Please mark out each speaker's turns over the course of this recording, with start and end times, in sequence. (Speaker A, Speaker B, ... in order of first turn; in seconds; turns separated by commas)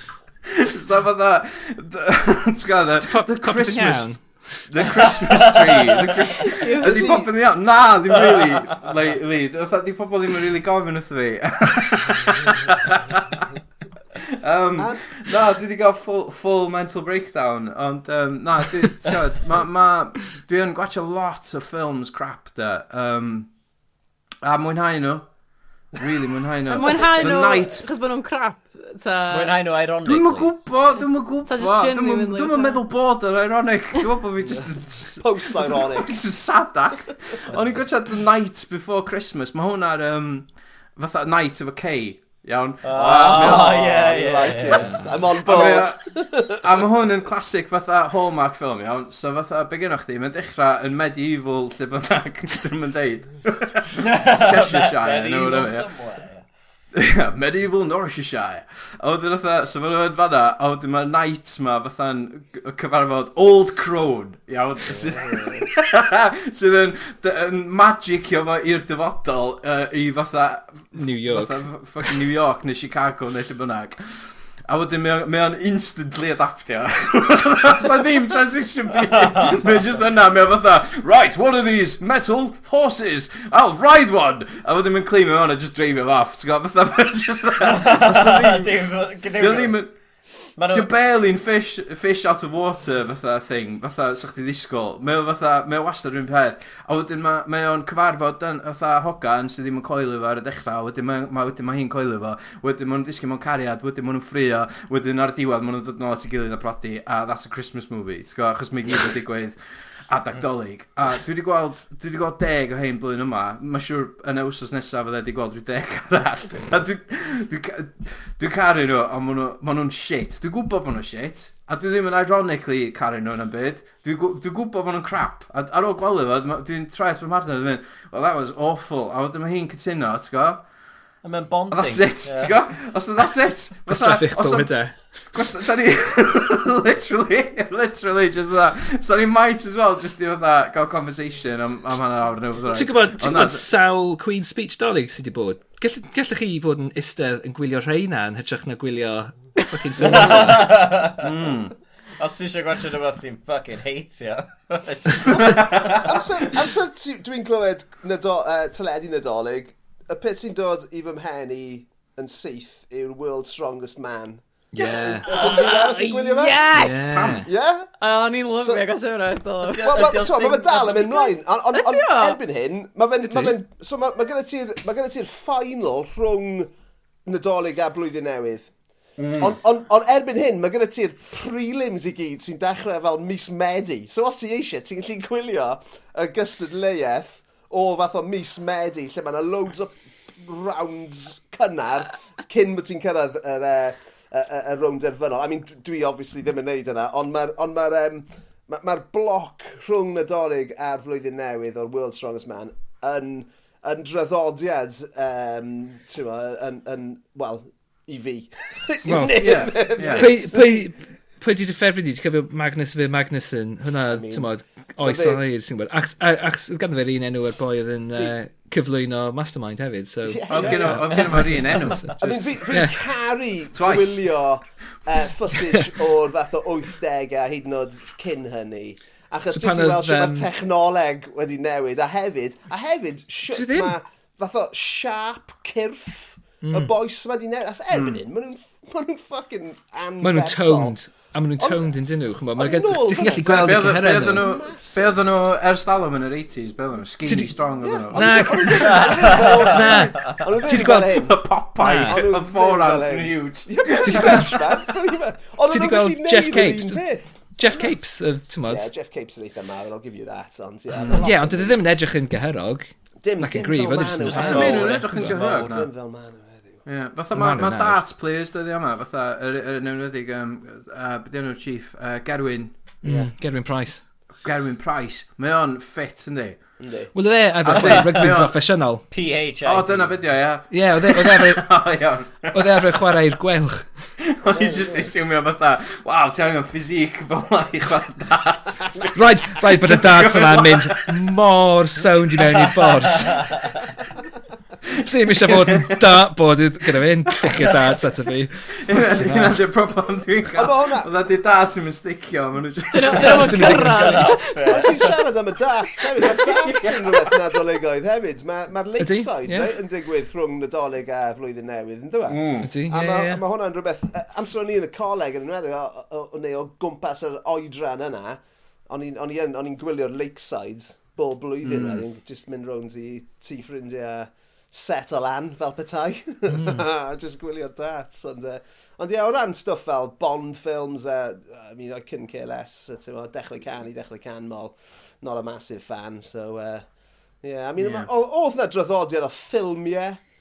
Speaker A: 0.5-4.1, Speaker B: 3.0-4.7, Speaker A: 4.7-13.4, Speaker C: 5.0-6.2, Speaker D: 6.4-7.2, Speaker E: 6.8-7.3, Speaker C: 8.1-8.6, Speaker A: 14.2-23.5, Speaker E: 14.8-15.0, Speaker A: 24.4-25.2, Speaker A: 25.9-27.8, Speaker D: 26.7-29.6, Speaker C: 29.3-30.6, Speaker A: 30.0-44.1, Speaker D: 31.4-32.8, Speaker E: 35.2-36.2, Speaker C: 42.8-45.1, Speaker E: 42.9-46.6, Speaker A: 45.4-55.9, Speaker C: 53.9-56.4, Speaker A: 56.9-89.9, Speaker E: 65.1-65.7, Speaker B: 70.9-72.1, Speaker C: 79.2-79.6, Speaker C: 87.6-89.8, Speaker C: 90.6-90.9, Speaker A: 90.7-109.5, Speaker A: 110.1-130.6, Speaker C: 131.2-132.5, Speaker A: 131.7-134.7, Speaker B: 133.9-134.9, Speaker A: 135.3-143.7, Speaker B: 142.7-150.7, Speaker C: 150.0-151.3, Speaker A: 150.5-151.7, Speaker C: 152.2-156.2, Speaker E: 155.2-167.9, Speaker A: 155.3-156.1, Speaker B: 164.7-165.3, Speaker D: 165.2-167.4, Speaker B: 166.7-167.5, Speaker A: 167.1-167.4, Speaker D: 168.0-170.0, Speaker E: 168.6-168.8, Speaker C: 169.6-171.1, Speaker E: 169.8-176.7, Speaker D: 171.2-172.4, Speaker B: 173.2-173.5, Speaker E: 177.2-178.7, Speaker A: 179.2-179.5, Speaker E: 179.4-210.9, Speaker B: 209.0-222.1, Speaker A: 209.3-210.3, Speaker E: 214.1-214.5, Speaker E: 215.0-215.4, Speaker E: 220.2-221.4, Speaker A: 220.5-222.6, Speaker C: 221.1-221.9, Speaker E: 222.2-240.9, Speaker B: 222.7-223.0, Speaker A: 223.7-224.2, Speaker B: 229.5-230.5, Speaker B: 233.5-234.0, Speaker B: 236.6-236.9, Speaker A: 237.9-238.2, Speaker B: 240.2-244.4, Speaker E: 241.6-241.9, Speaker E: 242.6-245.2, Speaker A: 243.4-249.0, Speaker B: 247.2-247.5, Speaker E: 247.8-251.4, Speaker B: 248.1-252.2, Speaker C: 248.8-250.4, Speaker A: 250.7-254.7, Speaker E: 252.0-257.9, Speaker B: 253.9-254.7, Speaker B: 255.7-257.0, Speaker B: 257.5-258.9, Speaker E: 258.7-261.8, Speaker B: 261.2-264.9, Speaker E: 263.2-266.8, Speaker C: 264.2-265.8, Speaker A: 264.3-265.9, Speaker A: 266.9-272.8, Speaker B: 267.3-268.0, Speaker E: 273.0-273.3, Speaker B: 273.0-274.0, Speaker A: 274.4-276.6, Speaker E: 276.8-277.1, Speaker B: 277.1-279.0, Speaker A: 277.6-278.6, Speaker C: 279.1-280.1, Speaker A: 279.6-282.8, Speaker B: 280.7-281.7, Speaker B: 282.5-283.9, Speaker A: 284.2-291.2, Speaker E: 284.5-285.1, Speaker B: 289.1-293.7, Speaker A: 292.4-292.9, Speaker B: 294.9-299.6, Speaker A: 295.4-296.1, Speaker A: 298.8-303.5, Speaker E: 300.5-301.1, Speaker D: 302.9-304.8, Speaker C: 303.1-305.1, Speaker B: 303.2-304.3, Speaker E: 304.6-336.8, Speaker A: 306.2-307.3, Speaker B: 309.0-309.7, Speaker A: 312.3-312.7, Speaker B: 312.6-313.4, Speaker A: 321.6-322.0, Speaker B: 326.5-326.8, Speaker E: 337.4-340.2, Speaker A: 337.8-338.1